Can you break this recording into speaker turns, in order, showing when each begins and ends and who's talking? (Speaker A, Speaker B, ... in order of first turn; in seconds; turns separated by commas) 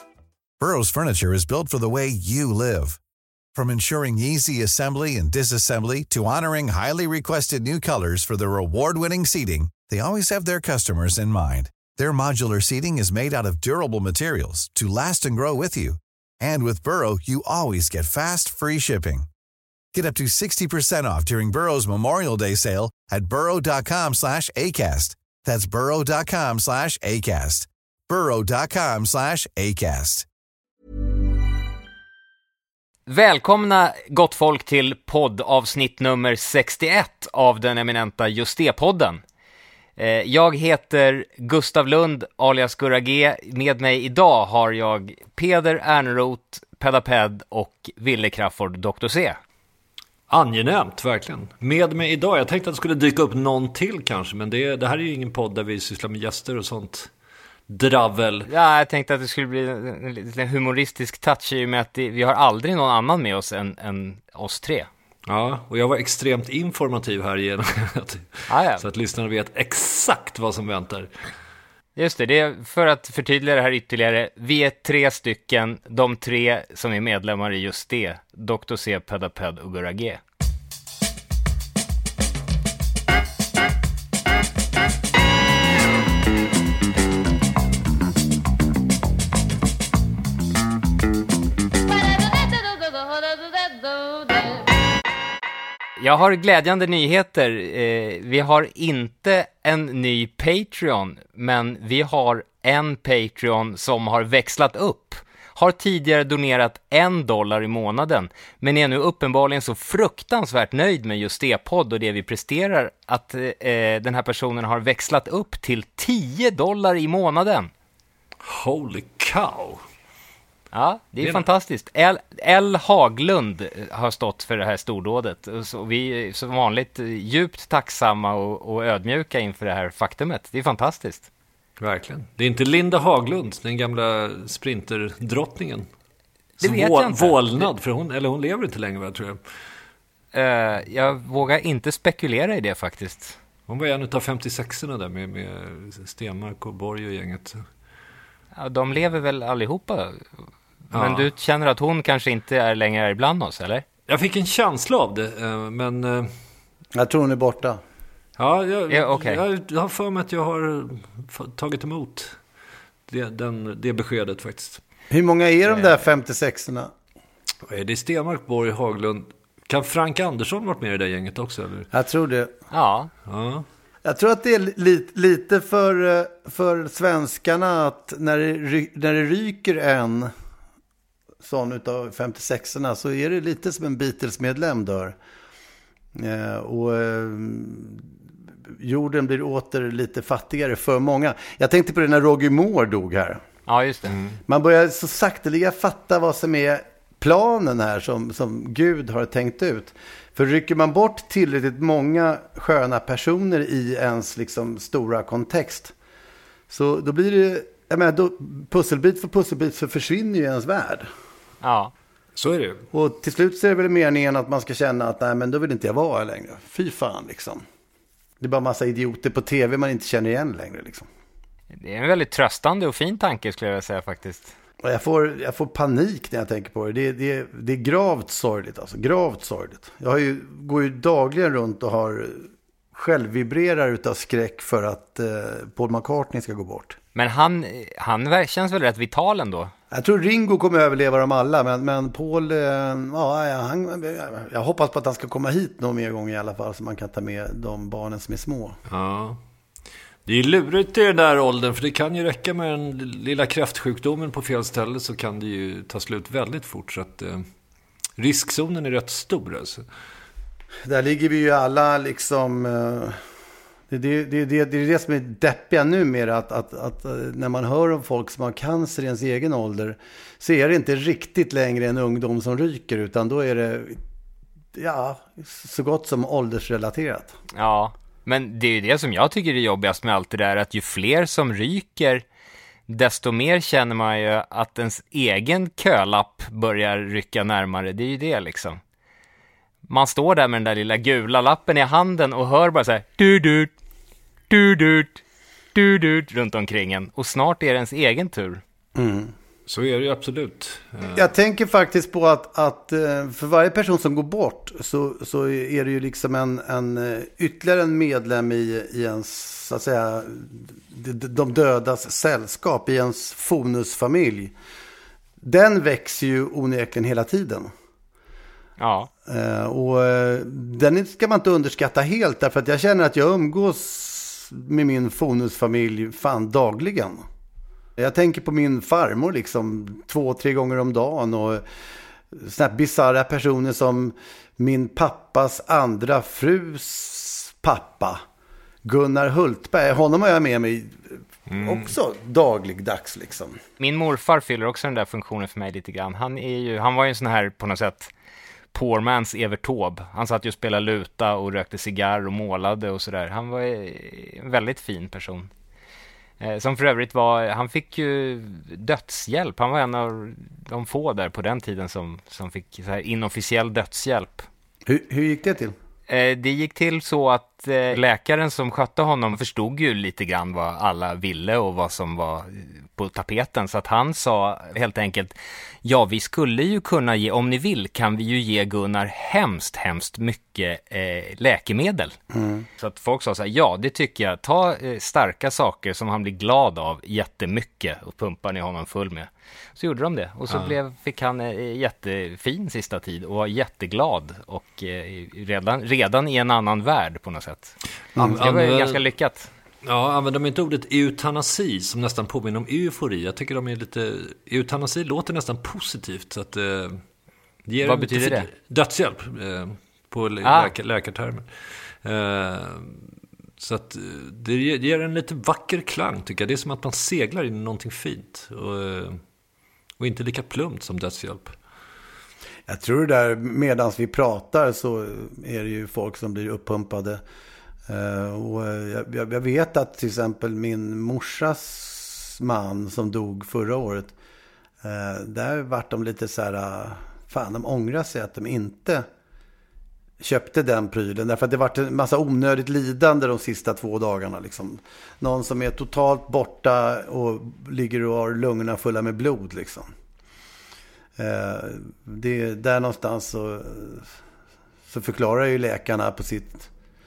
Speaker A: 0.6-3.0, Speaker A: 3.5-19.3, Speaker A: 19.9-30.3, Speaker B: 33.1-39.2, Speaker B: 40.0-49.4, Speaker C: 50.3-57.1, Speaker C: 57.7-58.5, Speaker B: 58.5-64.9, Speaker C: 65.3-71.1, Speaker B: 68.5-68.8, Speaker B: 72.0-80.2, Speaker B: 96.0-117.7, Speaker C: 118.4-119.8, Speaker B: 120.7-131.3, Speaker C: 131.8-135.9, Speaker B: 136.6-137.7, Speaker C: 136.6-139.4, Speaker B: 140.3-143.4, Speaker C: 143.7-147.6, Speaker B: 148.6-150.3, Speaker C: 150.9-151.3, Speaker B: 150.9-153.8, Speaker C: 154.1-156.3, Speaker D: 156.9-157.8, Speaker C: 158.4-162.4, Speaker B: 158.9-159.4, Speaker C: 163.1-164.8, Speaker D: 165.1-166.9, Speaker C: 167.7-171.9, Speaker D: 171.9-172.5, Speaker B: 172.7-173.1, Speaker C: 173.3-173.7, Speaker D: 174.1-180.3, Speaker D: 181.4-185.2, Speaker D: 186.2-188.1, Speaker D: 188.8-193.4, Speaker B: 193.7-194.1, Speaker C: 194.1-194.4, Speaker D: 194.5-205.9, Speaker D: 206.7-211.1, Speaker B: 211.6-211.9, Speaker C: 212.4-212.8, Speaker D: 212.9-217.7, Speaker D: 218.4-221.1, Speaker B: 221.7-224.5, Speaker D: 224.8-237.0, Speaker B: 237.2-239.7, Speaker D: 239.9-248.8, Speaker C: 248.9-249.4, Speaker C: 250.3-257.4, Speaker C: 258.2-259.9, Speaker D: 260.9-263.2, Speaker D: 263.9-274.0, Speaker D: 274.8-277.4, Speaker B: 277.6-282.2, Speaker B: 282.9-288.8, Speaker B: 289.9-293.7, Speaker B: 294.5-295.2, Speaker B: 295.7-298.6, Speaker D: 299.0-299.3, Speaker C: 299.7-301.3, Speaker D: 301.1-314.5, Speaker D: 315.4-317.7, Speaker B: 318.8-319.1, Speaker D: 319.3-327.2, Speaker D: 328.0-331.6, Speaker D: 332.3-338.2, Speaker D: 338.9-343.6, Speaker C: 341.5-341.9, Speaker B: 343.8-348.1, Speaker B: 348.7-355.5, Speaker B: 356.4-364.5, Speaker D: 364.9-365.8, Speaker B: 366.1-382.2, Speaker D: 382.3-382.7, Speaker B: 382.8-399.5, Speaker C: 398.2-399.0, Speaker C: 399.8-407.0, Speaker C: 407.7-413.1, Speaker B: 407.8-408.5, Speaker B: 410.4-410.7, Speaker C: 413.6-419.2, Speaker C: 420.0-421.6, Speaker D: 422.7-427.2, Speaker D: 427.9-434.1, Speaker D: 434.8-439.1, Speaker D: 440.2-449.9, Speaker D: 451.2-454.1, Speaker D: 454.9-456.7